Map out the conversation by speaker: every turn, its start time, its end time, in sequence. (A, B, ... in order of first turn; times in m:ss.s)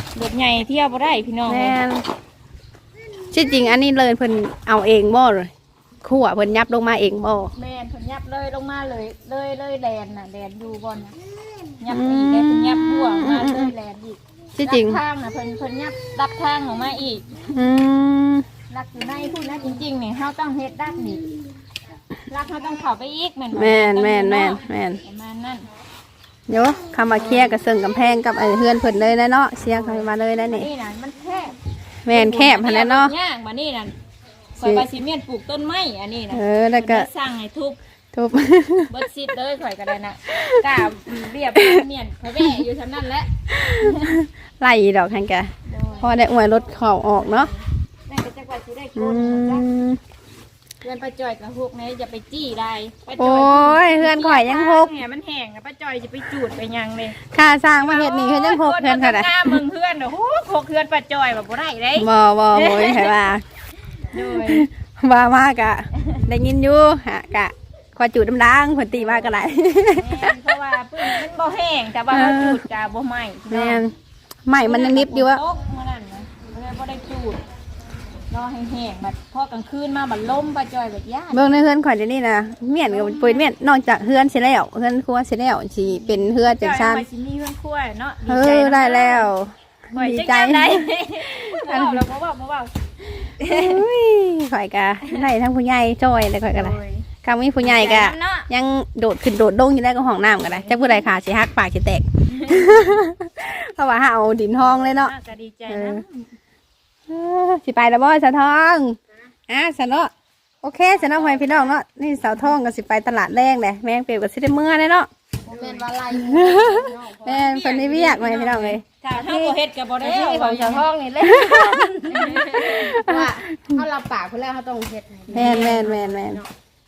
0:00.1-0:01.8 A
0:01.5-0:02.0 B
0:03.3-0:05.5 B
0:06.0-0:07.5 B
0:07.6-0:11.1 A
0:11.8-0:17.3 A
0:11.9-0:13.7 B
0:14.6-0:15.0 B
0:17.5-0:18.4 B
0:18.7-0:21.2 A
0:22.3-0:25.7 A
0:23.5-0:25.0 B
0:26.5-0:30.7 B
0:27.1-0:27.6 A
0:29.7-0:31.6 A
0:32.0-0:33.1 B
0:32.1-0:33.9 A
0:34.6-0:37.8 A
0:34.6-0:34.8 B
0:36.3-0:37.1 B
0:38.1-0:38.9 B
0:38.9-0:44.2 A
0:40.3-0:40.7 B
0:41.6-0:41.8 B
0:43.6-0:47.5 B
0:45.7-0:46.2 A
0:47.1-0:49.6 A
0:49.0-0:50.0 B
0:50.8-0:57.2 A
0:53.2-0:54.9 B
0:57.2-0:59.6 B
0:57.8-1:03.1 A
1:02.0-1:03.4 B
1:04.1-1:04.7 A
1:04.1-1:10.4 B
1:08.9-1:09.4 A
1:09.9-1:13.8 A
1:12.1-1:12.6 B
1:13.5-1:13.9 B
1:14.4-1:15.4 B
1:14.6-1:17.4 A
1:18.3-1:21.5 A
1:21.3-1:27.0 B
1:22.8-1:23.5 A
1:25.9-1:29.3 A
1:28.2-1:32.0 B
1:29.9-1:33.8 A
1:33.4-1:45.1 B
1:36.5-1:37.0 A
1:37.6-1:38.5 A
1:40.2-1:40.7 A
1:42.3-1:42.8 A
1:44.8-1:46.3 A
1:45.7-1:46.0 B
1:47.1-1:49.0 B
1:49.5-1:50.1 B
1:50.6-1:55.1 B
1:55.5-1:55.9 A
1:55.5-1:57.4 C
1:56.1-1:59.4 B
1:57.3-2:00.8 A
1:59.2-2:06.5 C
2:01.2-2:03.4 B
2:02.1-2:02.9 A
2:05.3-2:05.8 A
2:05.3-2:06.4 B